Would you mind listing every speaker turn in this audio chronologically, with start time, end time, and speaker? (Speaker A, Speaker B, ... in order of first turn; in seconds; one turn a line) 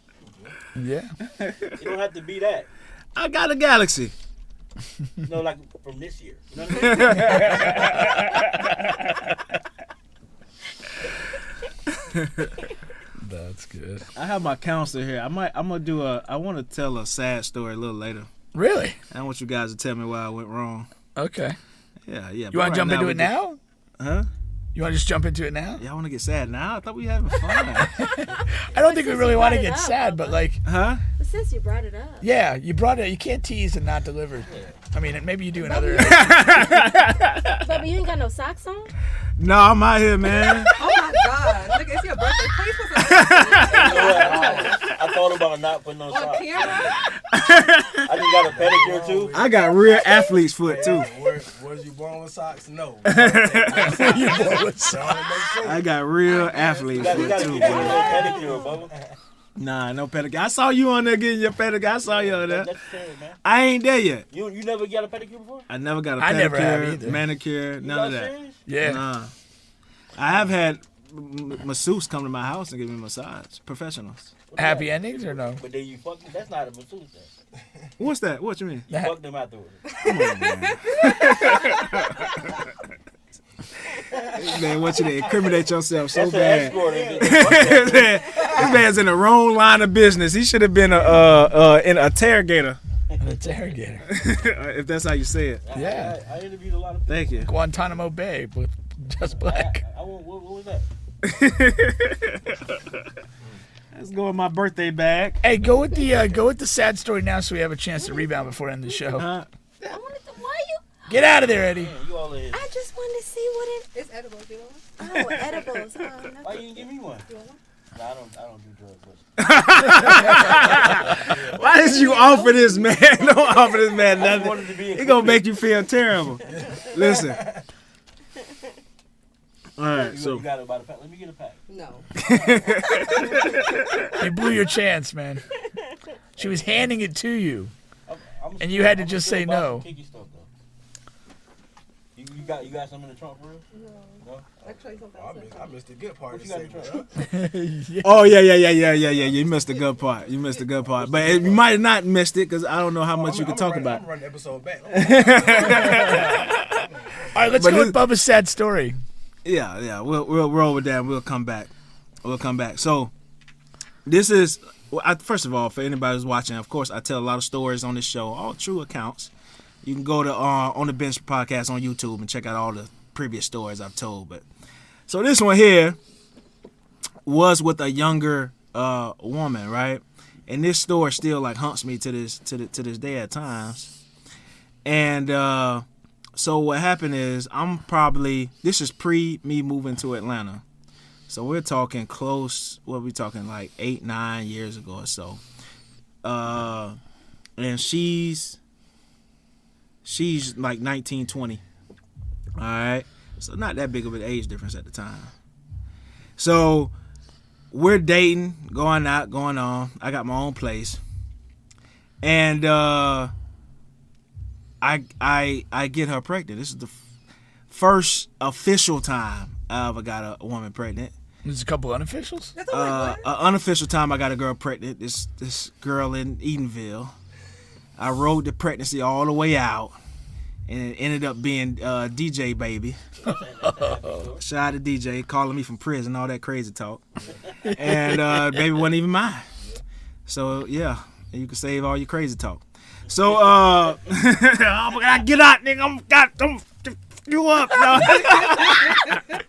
Speaker A: 0.2-0.6
Speaker B: 0.8-1.1
Speaker C: 1.4-1.9
Speaker D: 1.8-2.7
Speaker C: 3.1-4.1
Speaker D: 5.2-8.3
Speaker C: 6.7-9.0
Speaker C: 12.1-12.5
Speaker B: 13.2-14.1
Speaker C: 14.2-18.3
Speaker B: 18.5-19.0
Speaker C: 19.1-20.9
Speaker B: 21.1-21.6
Speaker C: 22.0-23.4
Speaker B: 22.5-23.6
Speaker C: 24.0-24.3
Speaker B: 24.7-25.8
Speaker C: 25.8-27.9
Speaker B: 28.2-30.6
Speaker E: 28.4-30.5
Speaker C: 30.6-31.0
Speaker E: 31.2-32.2
Speaker B: 32.2-36.5
Speaker D: 34.4-34.8
Speaker E: 35.6-36.8
Speaker C: 36.0-37.8
Speaker E: 37.6-38.9
Speaker C: 39.4-40.7
Speaker F: 40.8-44.9
Speaker C: 43.0-44.1
Speaker A: 43.6-44.9
Speaker D: 43.6-47.0
Speaker F: 46.1-47.0
Speaker C: 47.3-48.2
Speaker D: 48.0-49.4
Speaker A: 48.2-55.9
Speaker C: 49.3-51.1
Speaker E: 49.5-50.3
Speaker C: 53.0-54.2
Speaker B: 53.7-55.5
Speaker D: 53.8-54.3
Speaker C: 55.6-58.1
Speaker F: 56.2-58.6
Speaker D: 56.9-58.9
Speaker A: 57.0-59.1
Speaker C: 59.6-62.7
Speaker D: 62.1-63.4
Speaker C: 63.4-64.2
Speaker D: 64.3-65.7
Speaker C: 65.7-69.3
Speaker B: 66.2-67.2
Speaker D: 67.8-68.6
Speaker B: 68.7-69.0
Speaker C: 70.2-74.3
Speaker D: 74.5-77.3
Speaker B: 74.6-75.6
Speaker C: 78.0-78.9
Speaker D: 78.9-79.8
Speaker B: 78.9-79.2
Speaker F: 79.9-82.1
Speaker C: 80.0-82.3
Speaker C: 84.3-92.8
Speaker D: 86.1-88.6
Speaker A: 86.6-87.7
Speaker D: 93.1-93.8
Speaker B: 93.2-94.0
Speaker C: 94.0-95.7
Speaker D: 95.6-97.5
Speaker B: 95.7-96.2
Speaker C: 97.1-97.5
Speaker B: 97.4-99.8
Speaker D: 99.2-100.9
Speaker C: 101.2-102.9
Speaker C: 103.9-105.4
Speaker B: 105.4-109.3
Speaker E: 108.0-108.3
Speaker C: 109.1-109.5
Speaker E: 109.8-110.8
Speaker B: 111.1-111.9
Speaker D: 111.1-112.7
Speaker E: 112.5-113.9
Speaker F: 113.9-114.9
Speaker E: 115.0-116.8
Speaker C: 115.0-115.8
Speaker D: 116.4-117.3
Speaker F: 117.3-117.6
Speaker D: 117.9-119.2
Speaker C: 119.4-127.4
Speaker D: 120.5-121.9
Speaker E: 121.8-123.0
Speaker F: 121.9-122.5
Speaker D: 124.1-125.5
Speaker A: 126.4-127.6
Speaker C: 129.8-130.4
Speaker D: 129.9-131.6
Speaker F: 131.7-132.1
Speaker C: 132.2-134.0
Speaker D: 132.2-133.4
Speaker B: 134.2-135.4
Speaker B: 136.4-137.7
Speaker D: 138.1-140.5
Speaker B: 138.6-139.9
Speaker D: 142.1-143.7
Speaker F: 143.8-145.8
Speaker D: 144.2-144.8
Speaker A: 145.1-147.1
Speaker D: 146.3-147.1
Speaker B: 147.2-148.3
Speaker C: 148.0-154.1
Speaker A: 149.0-149.8
Speaker D: 150.9-151.7
Speaker A: 153.0-157.6
Speaker C: 154.9-156.7
Speaker B: 155.6-156.5
Speaker B: 157.3-158.9
Speaker C: 157.5-158.0
Speaker C: 159.4-161.7
Speaker C: 162.2-163.1
Speaker C: 164.1-169.3
Speaker C: 169.8-174.4
Speaker C: 175.1-176.0
Speaker C: 177.2-183.9
Speaker C: 184.8-185.8
Speaker C: 186.3-190.6
Speaker C: 191.3-195.4
Speaker C: 196.2-197.0
Speaker C: 197.6-198.6
Speaker C: 200.0-201.6
Speaker C: 202.6-205.3
Speaker C: 206.4-206.9
Speaker C: 207.7-211.0
Speaker C: 212.2-213.3
Speaker C: 214.8-216.9
Speaker C: 217.7-221.1
Speaker B: 221.4-222.5
Speaker F: 222.5-223.3
Speaker C: 222.7-227.1
Speaker C: 228.0-229.9
Speaker C: 230.7-233.0
Speaker D: 233.2-234.4
Speaker B: 233.6-234.2
Speaker C: 234.3-239.4
Speaker B: 237.7-238.2
Speaker C: 240.3-249.2
Speaker D: 243.1-243.9
Speaker F: 248.4-248.9